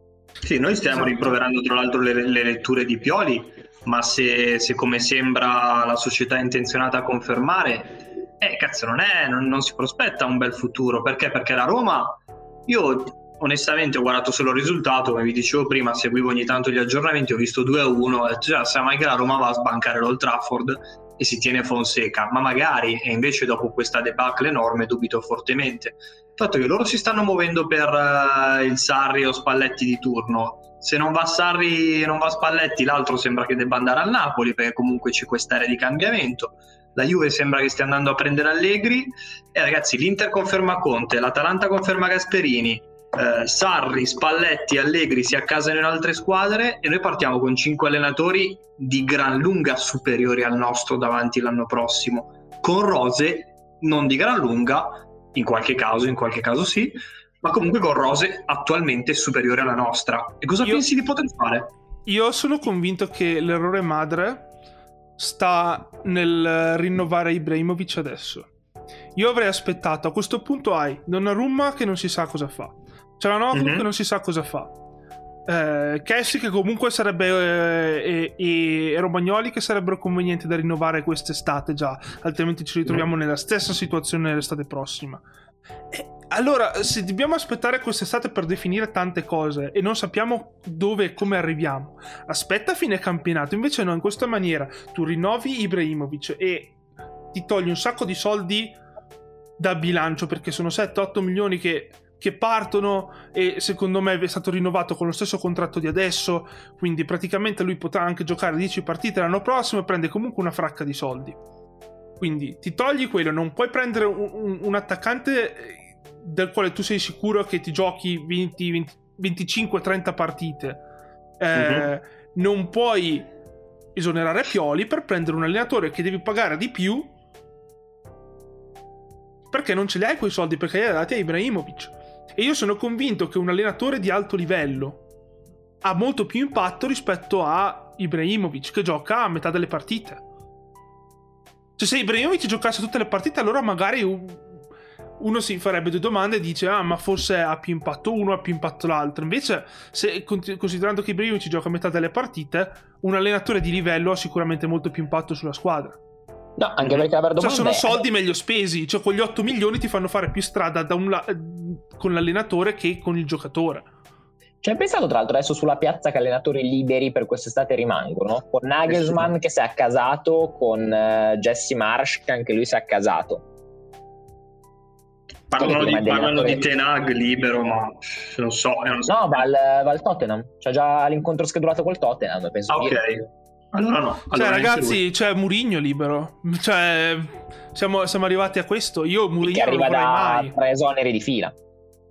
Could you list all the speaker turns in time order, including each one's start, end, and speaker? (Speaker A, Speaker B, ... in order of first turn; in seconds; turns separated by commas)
Speaker A: 0.4-61.7, Speaker B: 0.9-1.4, Speaker B: 62.0-64.5, Speaker B: 65.2-68.5, Speaker B: 69.2-74.7, Speaker A: 73.5-73.9, Speaker B: 75.5-85.2, Speaker B: 85.9-96.8, Speaker B: 97.3-98.8, Speaker B: 99.6-111.4, Speaker B: 112.2-120.8, Speaker B: 121.4-123.3, Speaker A: 121.5-121.9, Speaker B: 123.9-127.1, Speaker B: 129.5-135.0, Speaker B: 135.8-140.2, Speaker B: 141.8-144.6, Speaker B: 145.2-156.0, Speaker C: 156.6-158.0, Speaker B: 157.4-163.9, Speaker C: 164.6-173.4, Speaker A: 175.5-179.4, Speaker C: 175.6-176.6, Speaker C: 179.1-183.0, Speaker A: 182.7-185.0, Speaker B: 184.3-190.5, Speaker C: 189.4-191.5